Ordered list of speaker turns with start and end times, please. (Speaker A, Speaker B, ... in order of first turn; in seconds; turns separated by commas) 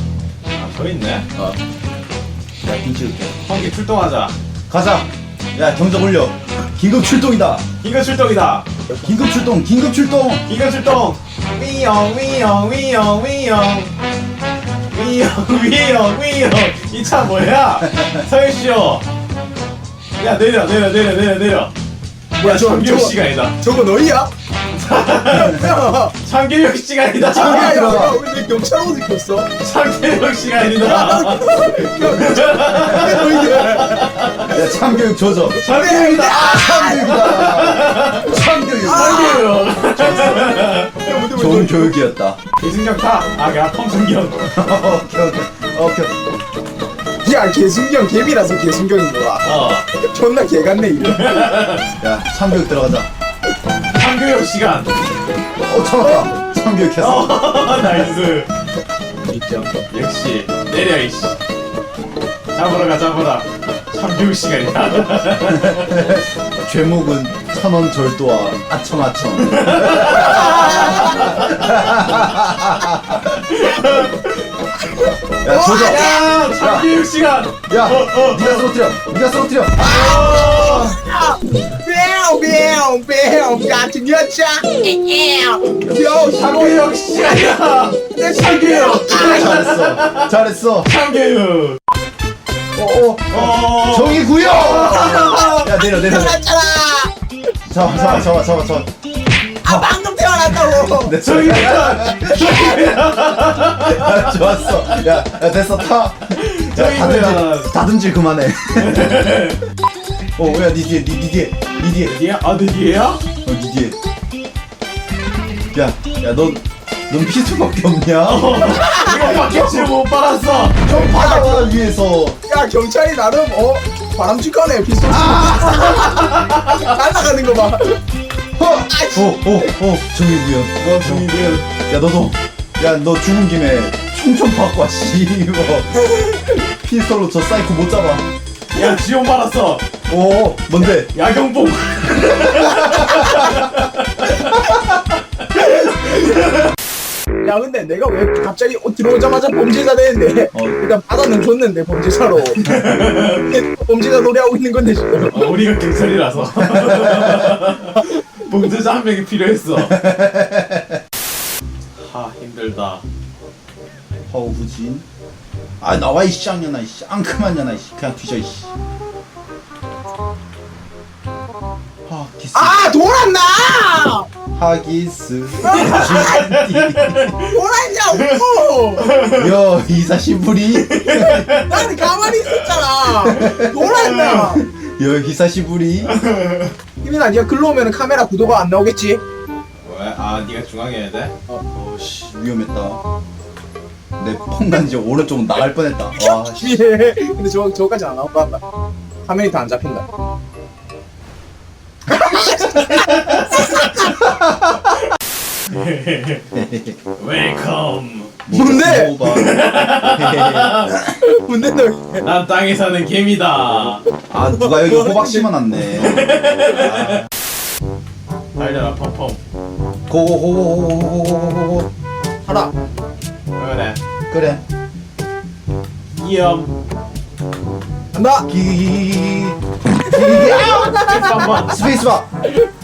Speaker A: 0.5-1.3, Speaker B: 2.6-3.4, Speaker A: 3.5-4.3, Speaker B: 4.7-7.7, Speaker A: 7.8-8.7, Speaker B: 9.0-10.4, Speaker A: 10.4-13.9, Speaker A: 14.9-19.0, Speaker A: 20.1-21.7, Speaker C: 22.4-24.3, Speaker A: 22.4-23.5, Speaker A: 24.7-25.7, Speaker C: 25.3-26.1, Speaker A: 26.2-27.9, Speaker C: 27.2-29.5, Speaker B: 27.3-28.2, Speaker A: 29.6-34.5, Speaker C: 30.8-34.1, Speaker B: 34.4-35.6, Speaker C: 35.5-37.5, Speaker A: 35.6-36.7, Speaker B: 36.2-39.4, Speaker A: 37.2-38.3, Speaker C: 38.8-39.5, Speaker A: 38.8-41.1, Speaker C: 40.9-42.0, Speaker B: 41.3-42.4, Speaker A: 42.6-44.5, Speaker B: 44.5-46.1, Speaker C: 47.2-51.6, Speaker A: 49.4-49.9, Speaker A: 51.0-51.9, Speaker B: 52.0-53.1, Speaker A: 53.9-55.0, Speaker B: 55.6-57.4, Speaker A: 57.0-58.5, Speaker C: 59.3-59.7, Speaker A: 59.9-61.4, Speaker A: 62.5-66.0, Speaker B: 65.5-73.2, Speaker A: 69.5-71.7, Speaker C: 70.7-71.2, Speaker A: 73.2-74.5, Speaker B: 75.4-76.9, Speaker C: 75.4-76.3, Speaker A: 75.6-78.7, Speaker B: 77.7-80.1, Speaker A: 79.8-80.9, Speaker C: 79.8-87.0, Speaker A: 86.0-90.3, Speaker C: 88.1-89.7, Speaker B: 89.2-90.9, Speaker A: 90.8-91.8, Speaker B: 92.7-96.4, Speaker A: 93.3-95.5, Speaker C: 94.5-97.1, Speaker B: 97.6-98.9, Speaker C: 99.6-101.2, Speaker B: 99.6-99.9, Speaker B: 100.6-102.8, Speaker A: 101.2-104.3, Speaker B: 103.8-109.2, Speaker A: 106.3-107.7, Speaker A: 108.8-109.6, Speaker B: 110.4-112.1, Speaker A: 112.0-113.2, Speaker B: 113.4-114.0, Speaker B: 115.7-119.8, Speaker A: 118.2-120.8, Speaker C: 118.7-119.2, Speaker B: 120.8-122.4, Speaker C: 120.9-121.7, Speaker C: 122.5-128.0, Speaker B: 125.1-125.8, Speaker A: 126.0-126.6, Speaker B: 128.6-138.2, Speaker C: 128.7-129.4, Speaker A: 130.8-131.6, Speaker A: 138.7-139.8, Speaker B: 140.1-141.1, Speaker A: 141.1-144.5, Speaker C: 147.4-155.5, Speaker B: 150.5-150.8, Speaker A: 152.6-153.5, Speaker A: 155.3-160.0, Speaker B: 159.9-161.0, Speaker A: 161.9-163.0, Speaker B: 164.3-165.0, Speaker B: 165.8-168.7, Speaker B: 172.1-172.9, Speaker C: 172.5-174.3, Speaker B: 174.5-177.3, Speaker C: 175.6-176.5, Speaker A: 175.9-177.5, Speaker C: 177.4-179.2, Speaker A: 179.0-179.4, Speaker B: 179.2-181.6, Speaker A: 181.1-181.9, Speaker C: 181.1-184.6, Speaker B: 183.2-186.1, Speaker A: 186.1-186.7, Speaker C: 187.0-189.2, Speaker A: 189.8-191.3, Speaker B: 191.7-193.0, Speaker B: 194.2-196.8, Speaker C: 196.2-198.6, Speaker C: 199.2-200.1, Speaker C: 202.1-204.1, Speaker A: 203.1-203.9, Speaker A: 205.7-206.4, Speaker B: 206.5-207.0, Speaker A: 207.2-208.4, Speaker B: 208.4-211.0, Speaker C: 208.5-209.2, Speaker A: 209.2-211.0, Speaker C: 211.1-212.2, Speaker A: 212.2-214.0, Speaker B: 214.3-216.3, Speaker C: 214.6-215.4, Speaker A: 216.0-217.2, Speaker A: 218.6-219.4, Speaker B: 220.1-221.9, Speaker C: 222.5-222.7, Speaker A: 223.5-224.0, Speaker B: 224.3-224.6, Speaker A: 226.2-226.7, Speaker C: 228.1-228.5, Speaker B: 228.5-231.1, Speaker A: 230.6-231.9, Speaker B: 231.6-232.3